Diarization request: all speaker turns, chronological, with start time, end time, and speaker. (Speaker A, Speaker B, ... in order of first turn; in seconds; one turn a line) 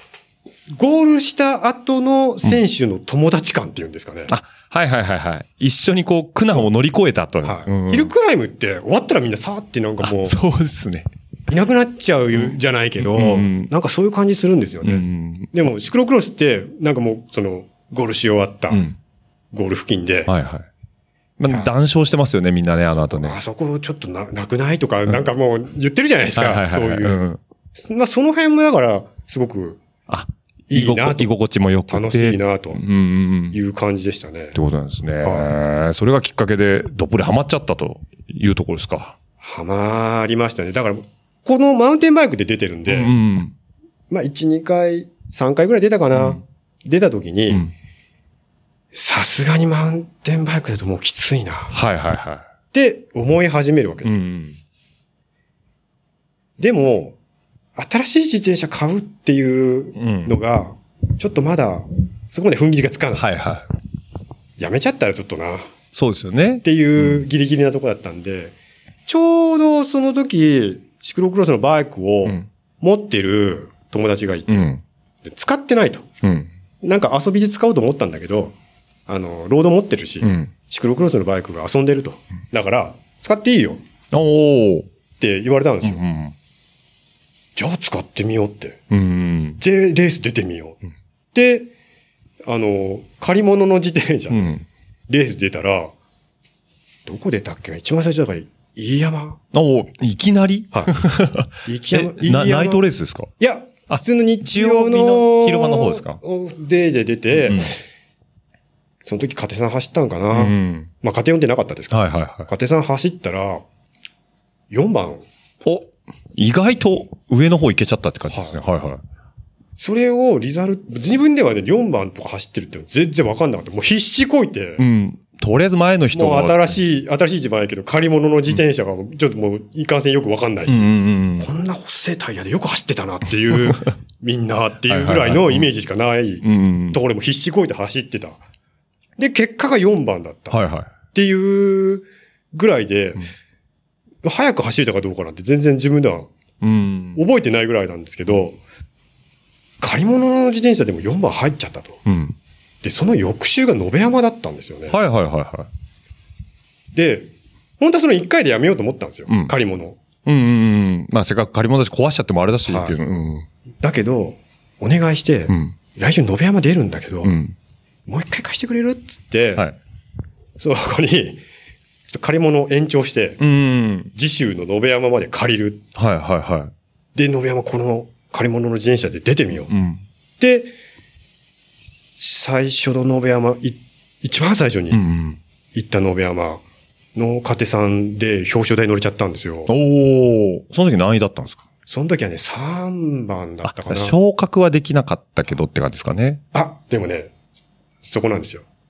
Speaker A: 0.8-4.3
Speaker B: 4.3-8.1
Speaker A: 7.4-10.4
Speaker B: 10.0-11.1
Speaker A: 11.5-18.9
Speaker B: 12.3-13.7
Speaker B: 14.8-15.5
Speaker B: 18.7-19.0
Speaker A: 19.5-20.3
Speaker B: 20.3-20.7
Speaker B: 21.4-23.4
Speaker A: 21.5-21.7
Speaker A: 23.0-27.2
Speaker B: 26.4-27.4
Speaker A: 27.8-29.8
Speaker B: 30.1-33.6
Speaker A: 30.7-31.3
Speaker A: 31.9-32.8
Speaker A: 33.5-34.6
Speaker B: 34.5-39.2
Speaker A: 35.2-35.5
Speaker A: 39.4-43.1
Speaker B: 42.9-43.5
Speaker A: 44.1-47.7
Speaker B: 46.1-46.4
Speaker A: 48.9-51.8
Speaker B: 51.7-52.5
Speaker A: 52.7-54.2
Speaker B: 54.0-54.6
Speaker A: 56.6-57.1
Speaker A: 57.8-63.3
Speaker B: 60.0-60.4
Speaker B: 63.1-63.7
Speaker A: 64.6-65.7
Speaker B: 65.9-67.2
Speaker A: 66.6-68.5
Speaker A: 69.1-76.1
Speaker B: 74.5-74.8
Speaker B: 76.2-76.5
Speaker A: 76.8-78.5
Speaker A: 79.1-83.8
Speaker B: 80.2-80.5
Speaker B: 84.1-84.9
Speaker A: 85.2-86.0
Speaker B: 85.8-86.3
Speaker A: 87.6-88.8
Speaker B: 88.9-89.6
Speaker A: 89.6-90.8
Speaker A: 91.3-91.7
Speaker A: 92.5-94.6
Speaker B: 94.3-94.7
Speaker A: 95.1-95.9
Speaker A: 97.1-99.4
Speaker B: 99.5-103.3
Speaker A: 101.7-102.9
Speaker A: 103.4-107.8
Speaker B: 103.9-106.2
Speaker B: 107.4-107.7
Speaker A: 109.0-113.6
Speaker B: 110.3-110.9
Speaker B: 111.9-112.5
Speaker A: 114.7-115.2
Speaker B: 115.6-119.0
Speaker A: 118.3-118.6
Speaker A: 119.8-124.8
Speaker B: 124.8-126.8
Speaker A: 126.1-138.4
Speaker B: 130.7-131.5
Speaker B: 133.5-133.8
Speaker B: 134.9-135.7
Speaker B: 136.4-137.0
Speaker A: 139.2-143.3
Speaker B: 140.5-140.9
Speaker A: 144.2-146.3
Speaker B: 146.6-147.2
Speaker A: 147.2-148.6
Speaker A: 149.8-152.0
Speaker B: 152.1-152.4
Speaker A: 152.8-155.0
Speaker B: 154.9-155.7
Speaker A: 156.9-160.0
Speaker B: 159.3-159.5
Speaker B: 160.2-163.5
Speaker A: 162.7-163.0
Speaker A: 163.8-167.3
Speaker B: 165.5-165.8
Speaker B: 167.2-167.6
Speaker A: 168.1-169.7
Speaker A: 170.6-171.4
Speaker A: 172.1-173.4
Speaker B: 173.4-174.1
Speaker A: 174.1-175.9
Speaker B: 176.0-176.7
Speaker A: 177.2-179.7
Speaker B: 179.7-180.0
Speaker A: 180.4-180.7
Speaker A: 182.2-185.0
Speaker B: 184.9-185.4
Speaker A: 185.7-186.6
Speaker A: 187.2-189.7
Speaker B: 189.7-191.7
Speaker A: 191.9-194.2
Speaker B: 193.7-196.4
Speaker A: 196.5-197.3
Speaker A: 198.0-198.6